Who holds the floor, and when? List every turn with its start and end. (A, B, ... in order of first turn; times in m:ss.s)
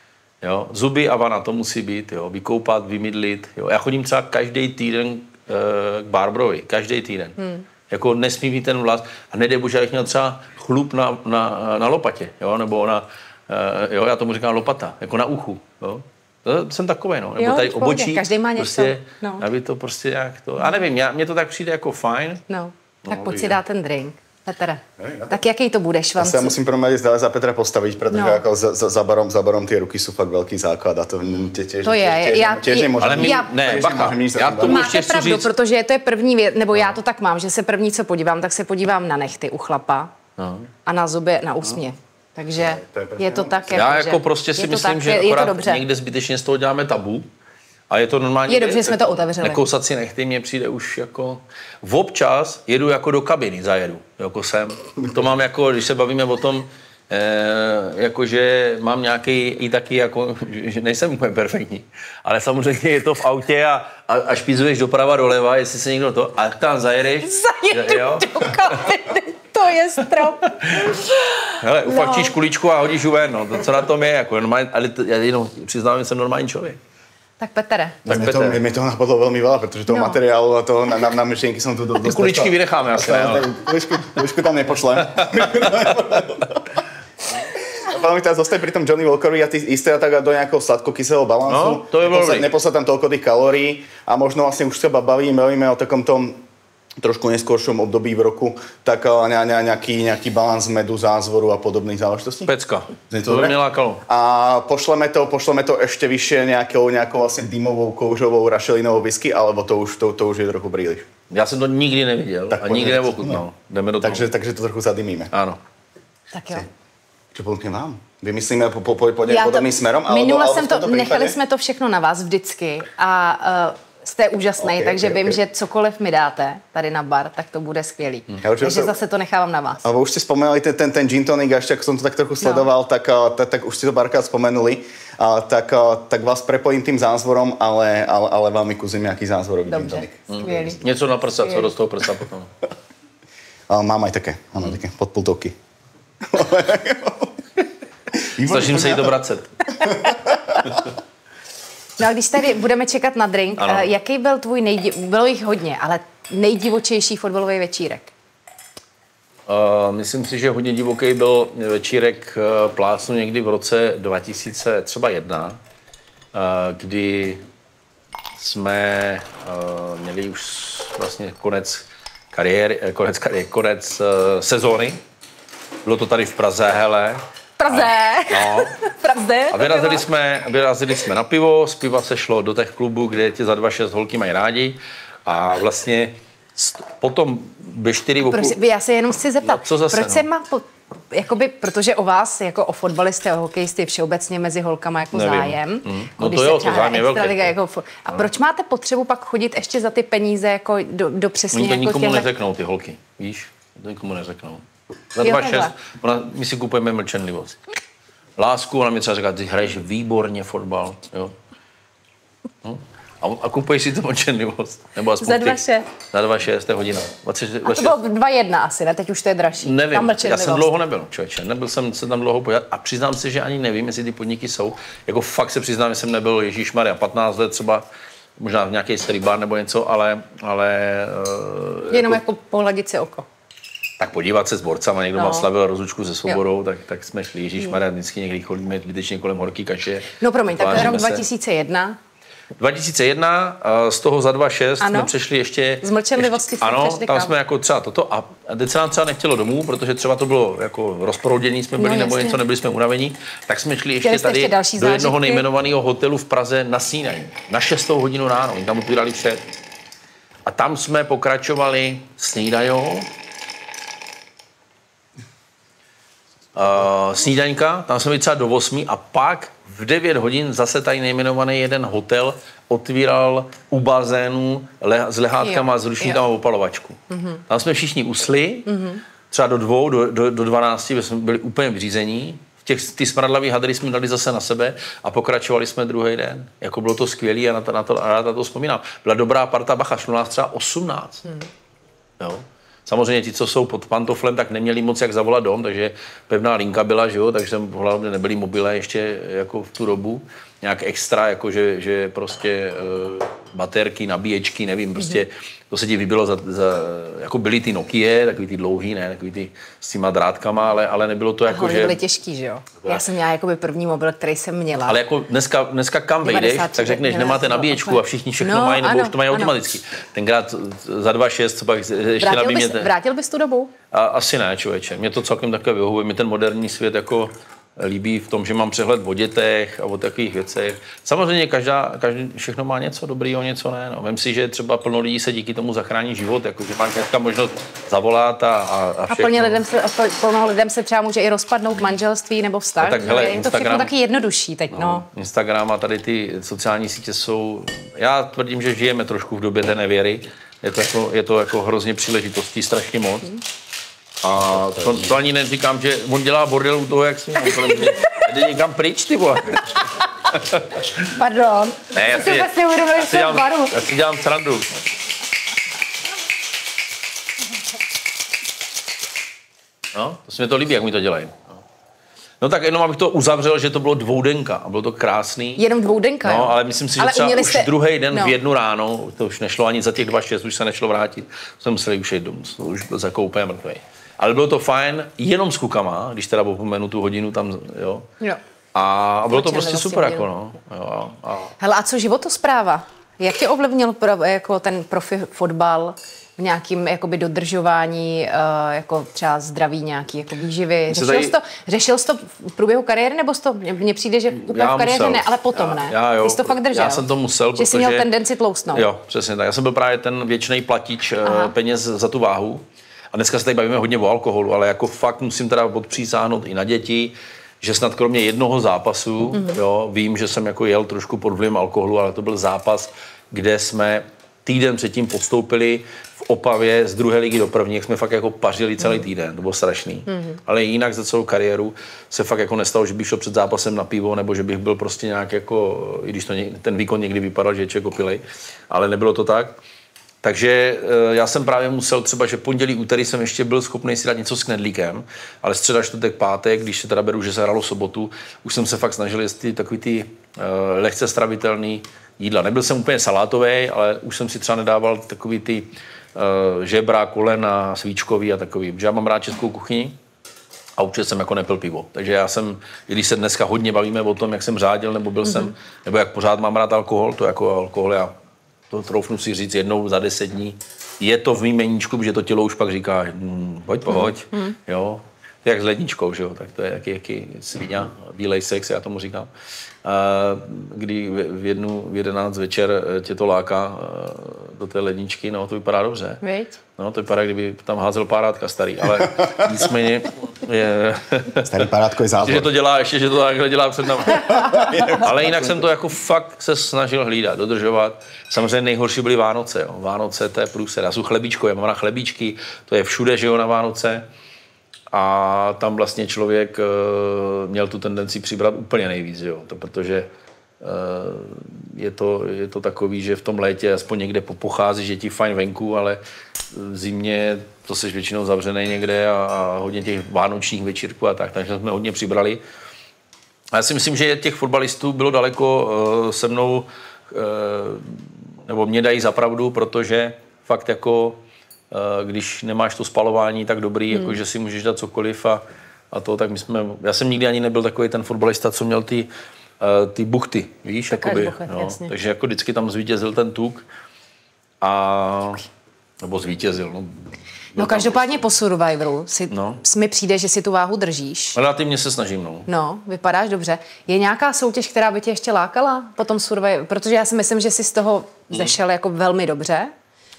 0:00.4-0:07.4 A
0:07.9-0:22.4 A
0:17.4-0:19.4 B
0:22.5-0:26.5 B
0:23.1-0:23.6 A
0:25.0-0:25.4 C
0:26.2-0:35.0 C
0:28.1-0:28.4 B
0:31.8-0:33.7 B
0:33.0-0:35.5 A
0:34.6-0:40.1 B
0:40.4-0:40.7 A
0:40.9-0:45.8 B
0:42.6-0:43.6 C
0:43.7-0:47.3 A
0:47.9-1:08.9 A
0:48.5-0:49.6 B
1:07.2-1:12.4 B
1:10.5-1:16.8 A
1:17.4-1:18.1 B
1:18.1-1:18.6 A
1:18.1-1:26.6 C
1:19.9-1:20.2 B
1:22.0-1:23.6 A
1:25.2-1:25.9 A
1:27.6-1:36.4 C
1:31.5-1:32.5 A
1:37.0-1:42.5 C
1:42.5-1:44.0 A
1:43.1-1:51.0 C
1:51.3-1:54.2 A
1:52.5-1:53.4 C
1:54.0-1:55.3 C
1:55.3-1:55.6 A
1:56.3-1:56.7 B
1:57.3-2:01.4 C
1:59.3-2:09.8 B
2:04.6-2:05.4 C
2:08.4-2:08.9 C
2:09.8-2:20.7 C
2:12.4-2:12.7 B
2:19.7-2:20.8 B
2:20.3-2:22.5 A
2:23.7-2:25.6 C
2:26.2-2:27.6 C
2:28.1-2:29.1 C
2:28.4-2:29.5 A
2:29.8-2:30.9 C
2:32.0-2:38.1 B
2:33.6-2:33.9 A
2:39.5-2:45.6 A
2:46.3-2:47.4 A
2:48.4-2:55.0 A
2:55.8-2:58.7 A
2:57.6-3:00.0 B
2:59.5-3:08.6 A
3:08.3-3:22.3 B
3:09.4-3:10.2 A
3:15.1-3:17.5 A
3:21.5-3:24.6 A
3:25.2-3:27.6 A
3:25.2-3:25.7 B
3:28.4-3:31.4 A
3:32.6-3:38.0 A
3:35.2-3:35.9 B
3:37.6-3:40.7 B
3:39.6-3:47.8 A
3:48.4-3:52.2 A
3:51.9-3:53.3 B
3:54.0-4:01.2 A
3:55.2-3:55.5 B
4:00.2-4:02.0 B
4:02.6-4:19.4 A
4:04.8-4:05.1 B
4:05.8-4:07.3 B
4:11.8-4:12.4 B
4:14.0-4:15.4 B
4:20.5-4:23.1 A
4:26.6-4:38.8 A
4:35.4-4:36.2 B
4:37.1-4:37.4 B
4:38.7-4:39.0 B
4:39.3-4:51.3 A
4:52.2-5:12.0 A
5:11.5-5:15.0 B
5:14.9-5:22.9 A
5:16.2-5:19.5 B
5:22.2-5:23.7 B
5:23.9-5:39.6 A
5:39.1-5:45.1 B
5:42.8-5:43.9 A
5:44.7-5:53.4 A
5:54.2-6:01.0 A
5:57.6-5:58.0 B
6:01.0-6:03.8 B
6:01.9-6:04.8 A
6:09.9-6:11.4 A
6:12.4-6:15.6 A
6:15.6-6:18.4 B
6:16.2-6:28.1 A
6:28.8-6:31.5 A
6:29.3-6:30.3 B
6:31.6-6:48.9 B
6:40.9-6:41.4 A
6:44.4-6:48.1 A
6:48.7-7:19.6 A
6:51.2-6:51.5 B
7:10.1-7:10.4 B
7:20.2-7:40.0 A
7:40.8-7:48.1 A
7:48.7-7:59.3 A
7:53.9-7:54.6 B
7:59.8-8:06.2 A
8:06.2-8:06.6 B
8:06.8-8:11.6 A
8:11.4-8:12.5 C
8:12.2-8:24.0 A
8:24.9-8:30.1 A
8:30.6-8:42.4 A
8:43.5-8:59.1 A
8:59.6-9:03.6 A
9:00.9-9:01.9 B
9:04.6-9:05.4 A
9:06.0-9:08.2 A
9:07.6-9:11.4 B
9:09.3-9:09.6 A
9:11.4-9:12.5 A
9:12.5-9:19.7 B
9:18.3-9:18.6 A